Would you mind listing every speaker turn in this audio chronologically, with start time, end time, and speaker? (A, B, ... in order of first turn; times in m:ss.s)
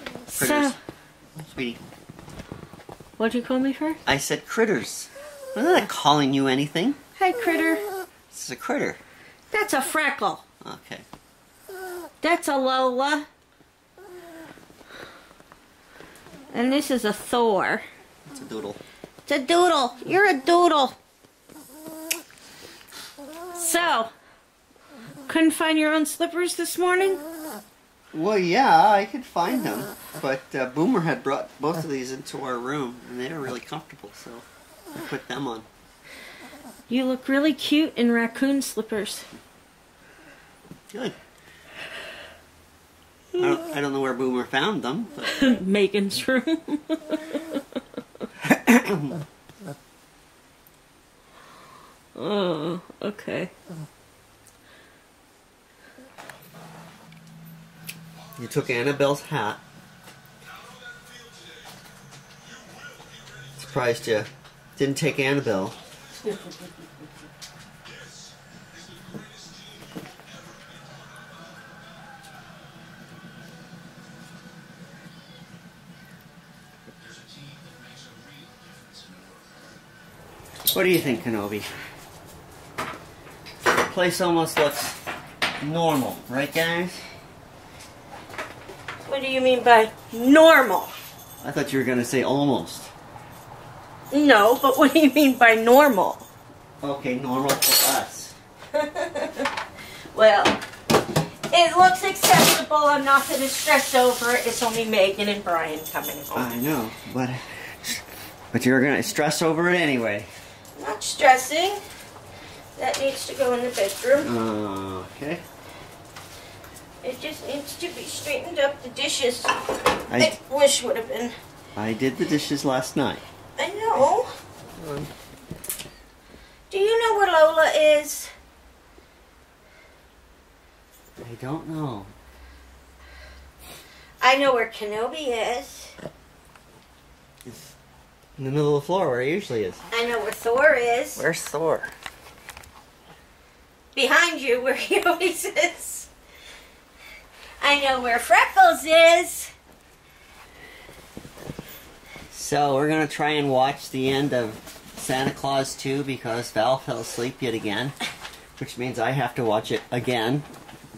0:00.3-0:00.8 A
0:00.4-0:00.8 B
0:01.4-0:01.8 B
0:03.2-0:04.0 A
0:04.1-0:07.0 B
0:07.2-0:07.8 A
0:08.3-0:09.0 B
0:09.5-0:10.4 A
0:10.6-0:11.0 B
0:12.2-0:13.3 A
0:16.5-0:17.8 A
0:18.3-0:18.8 B
0:19.3-0:21.0 A
0:23.5-0:24.1 A
0:25.3-0:27.2 A
0:28.1-0:34.4 B
0:35.1-0:35.7 B
0:36.9-0:39.3 A
0:43.4-0:45.5 B
0:45.3-0:47.6 A
0:48.4-0:49.2 B
0:52.2-0:53.5 A
0:58.4-0:59.6 B
1:03.6-1:05.8 B
1:20.7-1:21.7 B
1:23.7-1:25.0 B
1:25.6-1:27.0 B
1:29.0-1:30.9 A
1:31.4-1:32.9 B
1:34.1-1:36.2 A
1:36.8-1:38.3 B
1:38.7-1:39.5 A
1:40.1-1:40.6 A
1:41.5-1:46.5 A
1:46.3-1:50.3 B
1:50.8-1:51.8 A
1:52.8-1:54.3 A
1:54.2-1:55.4 B
1:57.0-2:01.3 A
2:01.8-2:03.2 B
2:03.6-2:04.3 A
2:04.8-2:05.1 B
2:06.7-2:08.3 A
2:11.2-2:12.1 B
2:14.2-2:15.9 A
2:17.4-2:17.7 B
2:18.4-2:19.8 B
2:19.9-2:21.2 A
2:21.2-2:21.9 B
2:23.9-2:26.1 A
2:27.6-2:29.5 A
2:32.3-2:37.9 B
2:38.6-2:40.5 B